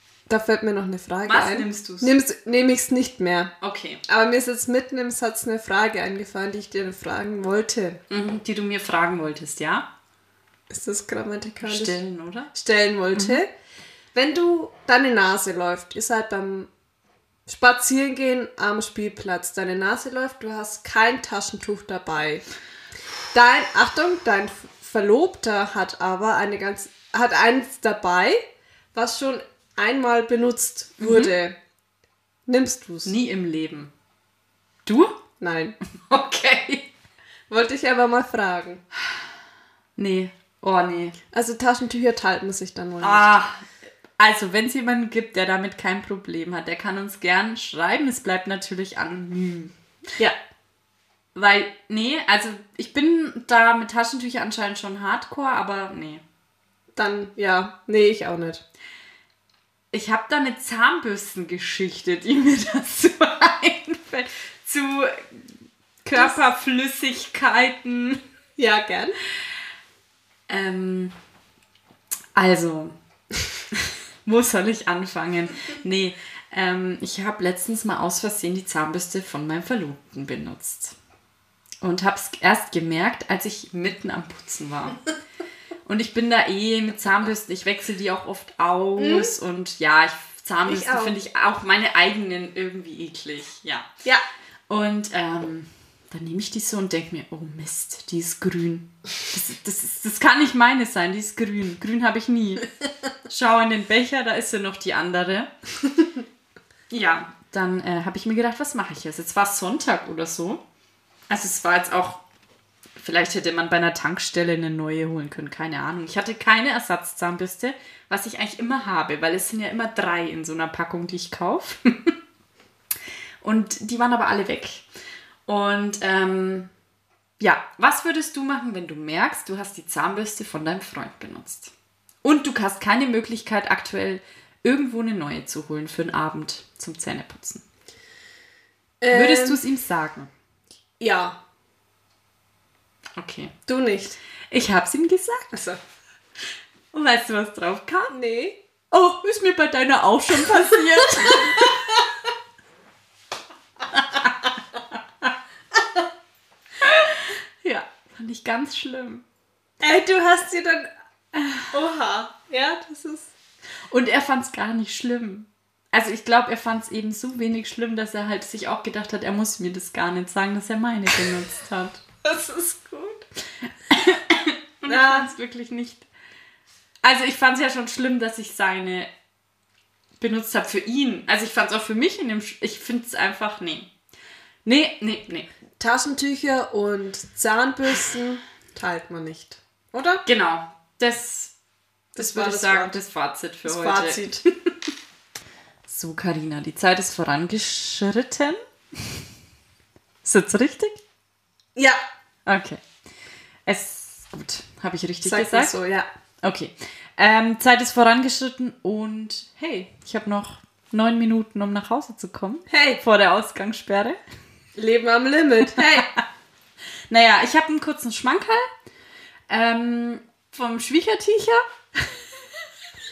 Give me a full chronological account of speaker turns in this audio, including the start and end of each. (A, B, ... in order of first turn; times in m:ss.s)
0:00.3-0:03.5 A
0:01.2-0:02.1 B
0:03.6-0:04.0 B
0:04.1-0:08.0 A
0:08.1-0:09.9 B
0:10.7-0:12.0 A
0:11.6-0:12.5 B
0:12.5-0:13.5 A
0:13.2-0:13.4 B
0:14.1-0:16.7 A
0:17.5-0:22.4 A
0:23.3-0:28.4 A
0:28.9-0:31.6 A
0:31.0-0:31.3 B
0:32.5-0:33.1 A
0:33.0-0:33.9 B
0:34.8-0:35.2 B
0:35.4-0:35.8 A
0:36.0-0:36.9 B
0:37.5-0:38.8 A
0:40.0-0:41.2 B
0:41.3-0:43.4 A
0:43.0-0:49.7 B
0:51.4-0:56.2 B
0:57.0-0:58.6 A
0:59.9-1:05.5 B
1:06.0-1:08.2 B
1:08.6-1:09.2 A
1:10.5-1:11.1 B
1:12.4-1:13.0 B
1:13.7-1:21.0 B
1:21.8-1:25.0 B
1:25.9-1:33.9 B
1:29.0-1:29.3 A
1:30.7-1:31.2 A
1:34.7-1:42.7 B
1:43.3-1:45.5 B
1:46.9-1:50.6 B
1:51.3-1:52.2 B
1:53.0-2:02.2 B
2:03.4-2:04.9 B
2:05.5-2:06.7 B
2:07.4-2:11.7 B
2:12.2-2:17.6 B
2:19.0-2:19.6 A
2:19.1-2:20.3 B
2:21.0-2:21.4 A
2:23.2-2:23.5 B
2:23.7-2:24.2 A
2:24.5-2:25.6 B
2:25.5-2:25.8 A
2:26.9-2:28.1 B
2:28.1-2:28.6 A
2:28.9-2:31.8 B
2:31.2-2:32.0 A
2:36.8-2:39.2 B
2:39.8-2:40.9 A
2:41.6-2:43.3 A
2:43.9-2:52.0 B
2:52.2-2:53.2 A
2:53.9-2:56.1 B
2:54.9-2:55.3 A
2:57.0-2:59.1 B
3:00.2-3:03.9 B
3:04.6-3:05.5 B
3:05.8-3:10.2 A
3:10.2-3:11.5 B
3:12.2-3:14.9 B
3:12.2-3:13.0 A
3:13.6-3:14.4 A
3:15.9-3:19.3 B
3:20.2-3:21.0 B
3:22.5-3:22.8 B
3:23.7-3:25.8 B
3:25.2-3:26.1 A
3:26.4-3:34.2 B
3:32.7-3:33.0 A
3:34.8-3:36.1 A
3:35.7-3:36.2 B
3:37.1-3:38.7 B
3:39.5-3:42.4 B